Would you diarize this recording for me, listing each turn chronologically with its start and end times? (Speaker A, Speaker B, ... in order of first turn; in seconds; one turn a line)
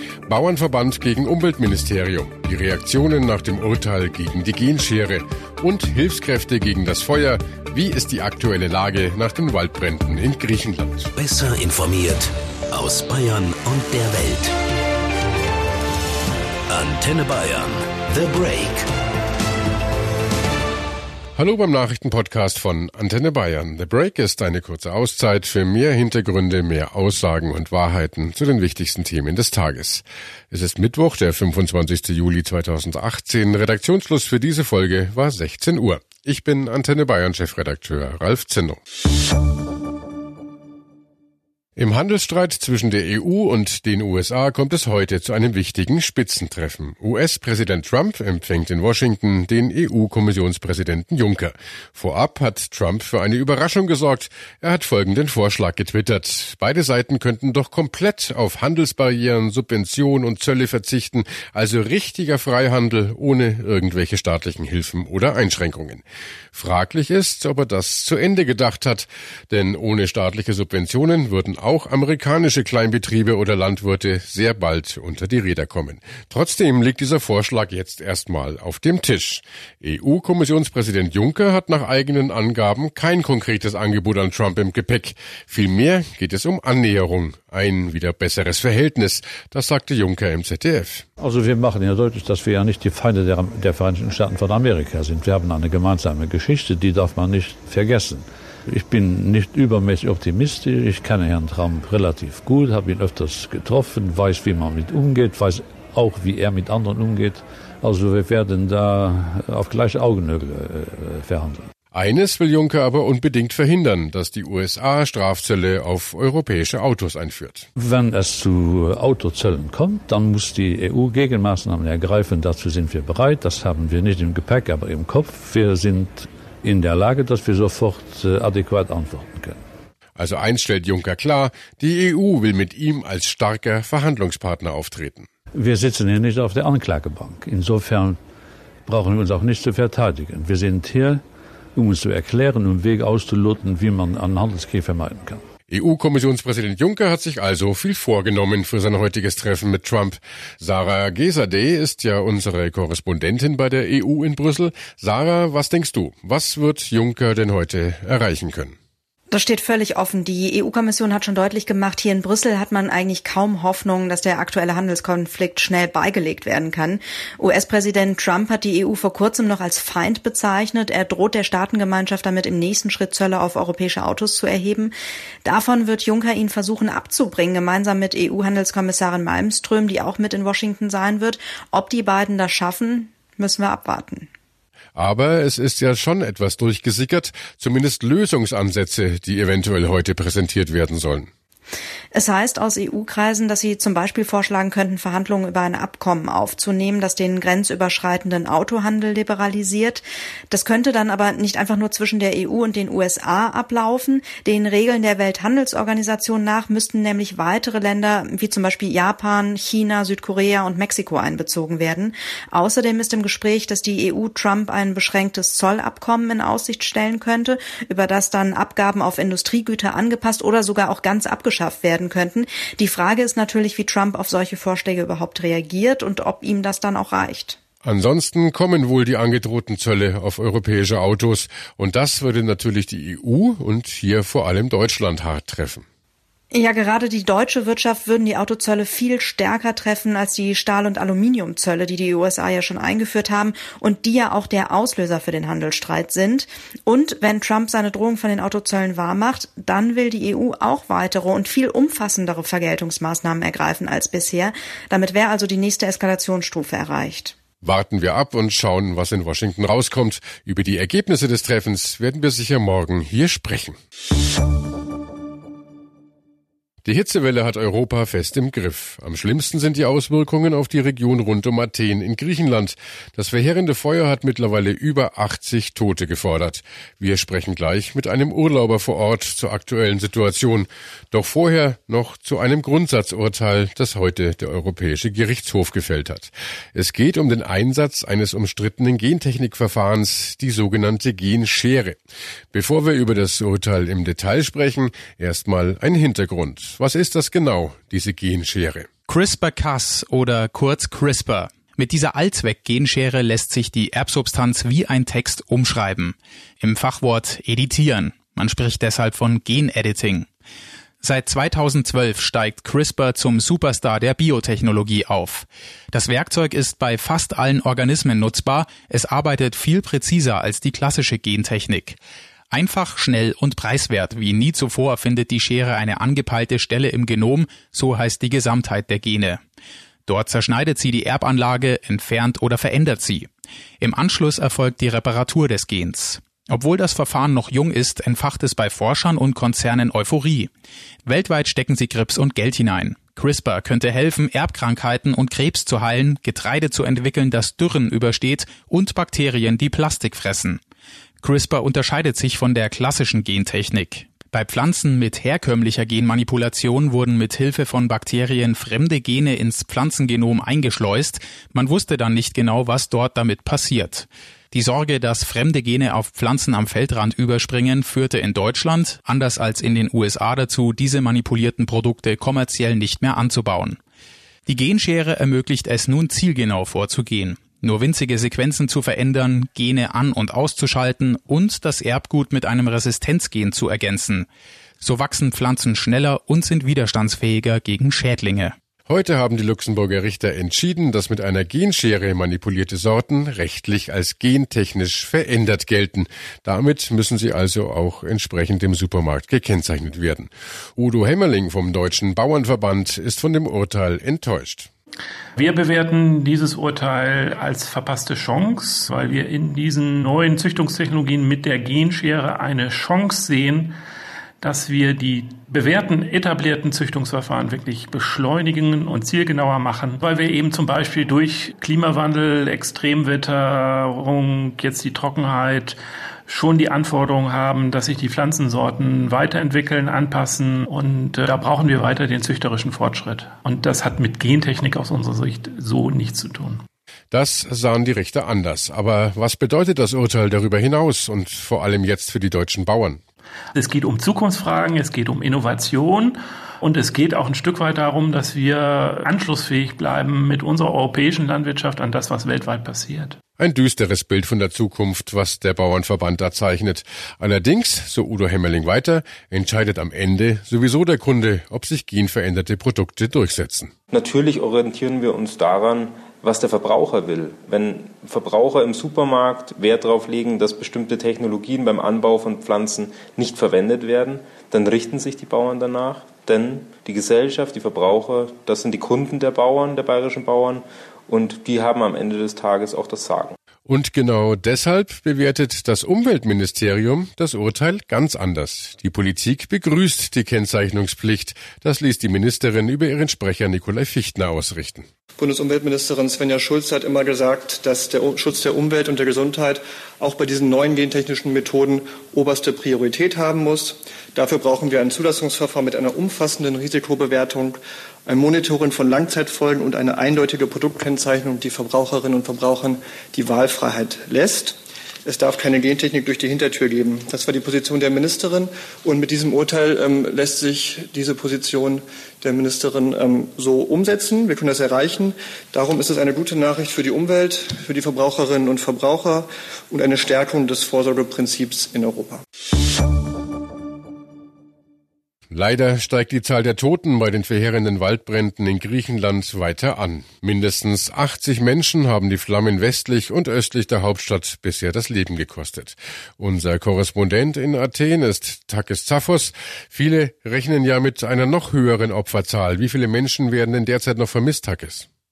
Speaker A: 0.3-11.1
Speaker B: 11.2-14.5
Speaker B: 16.7-18.9
Speaker A: 21.4-38.8
Speaker A: 41.8-91.0
Speaker C: 91.2-111.7
Speaker A: 111.9-117.7
Speaker C: 117.8-129.6
Speaker A: 130.2-135.3
Speaker C: 135.5-138.2
Speaker C: 138.9-141.2
Speaker C: 141.8-145.4
Speaker A: 145.7-158.7
Speaker D: 159.3-174.9
Speaker D: 175.4-184.3
Speaker A: 184.9-191.3
Speaker D: 192.1-227.6
Speaker A: 227.8-235.8
Speaker D: 236.5-257.3
Speaker A: 257.6-263.8
Speaker A: 266.8-292.0
Speaker A: 292.5-298.9
Speaker E: 299.1-310.3
Speaker E: 311.0-322.0
Speaker E: 322.5-329.4
Speaker E: 330.1-333.3
Speaker E: 333.8-340.5
Speaker E: 341.1-350.6
Speaker E: 351.2-373.8
Speaker E: 374.5-384.3
Speaker E: 384.8-388.5
Speaker A: 388.9-404.7
Speaker F: 405.4-413.8
Speaker F: 414.4-425.8
Speaker F: 426.3-436.6
Speaker A: 437.1-443.0
Speaker F: 443.6-453.2
Speaker A: 453.4-463.7
Speaker G: 463.9-483.4
Speaker A: 483.6-494.9
Speaker H: 495.2-532.2
Speaker A: 535.3-554.9